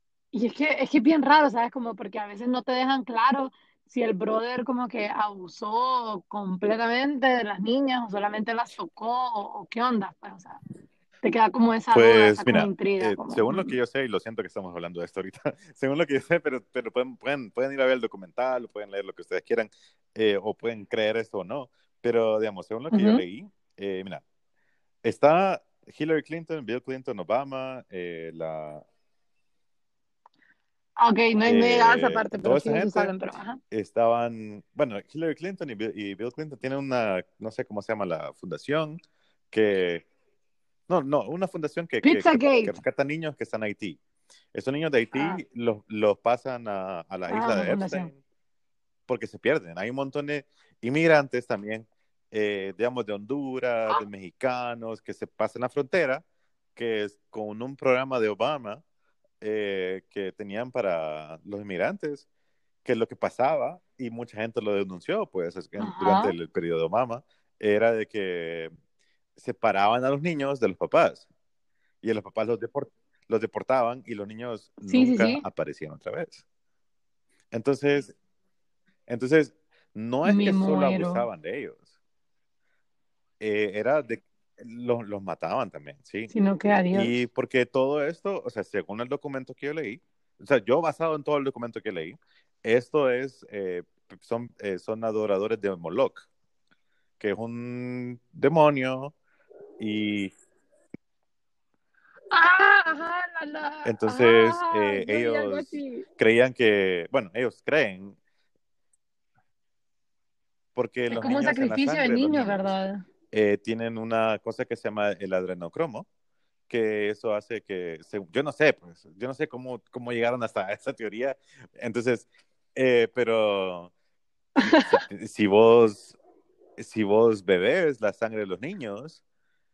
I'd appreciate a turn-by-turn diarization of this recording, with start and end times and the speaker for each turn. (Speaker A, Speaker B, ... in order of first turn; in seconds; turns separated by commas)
Speaker A: 0.3-10.6, Speaker A: 11.2-13.7, Speaker B: 11.9-24.2, Speaker A: 22.9-23.2, Speaker B: 25.0-28.8, Speaker A: 31.0-33.6, Speaker B: 31.4-33.1, Speaker B: 33.7-39.0, Speaker B: 39.5-40.0, Speaker B: 40.9-44.0, Speaker A: 42.0-42.7, Speaker B: 44.5-48.1, Speaker A: 45.1-45.4, Speaker A: 47.3-48.1, Speaker B: 49.1-56.2, Speaker B: 56.8-58.8, Speaker B: 59.4-62.2, Speaker B: 62.8-68.7, Speaker A: 65.8-66.3, Speaker B: 69.4-71.2, Speaker B: 72.0-76.4, Speaker A: 74.8-75.4, Speaker B: 77.5-78.1, Speaker B: 79.1-81.8, Speaker A: 80.2-81.2, Speaker B: 83.4-86.3, Speaker A: 86.3-87.1, Speaker B: 86.9-96.3, Speaker B: 97.2-99.1, Speaker B: 99.8-100.3, Speaker A: 102.3-106.0, Speaker B: 103.8-108.2, Speaker B: 110.7-112.7, Speaker A: 111.1-113.0, Speaker B: 113.3-116.0, Speaker B: 116.7-123.9, Speaker A: 124.6-125.0, Speaker B: 124.6-126.2, Speaker B: 126.8-129.2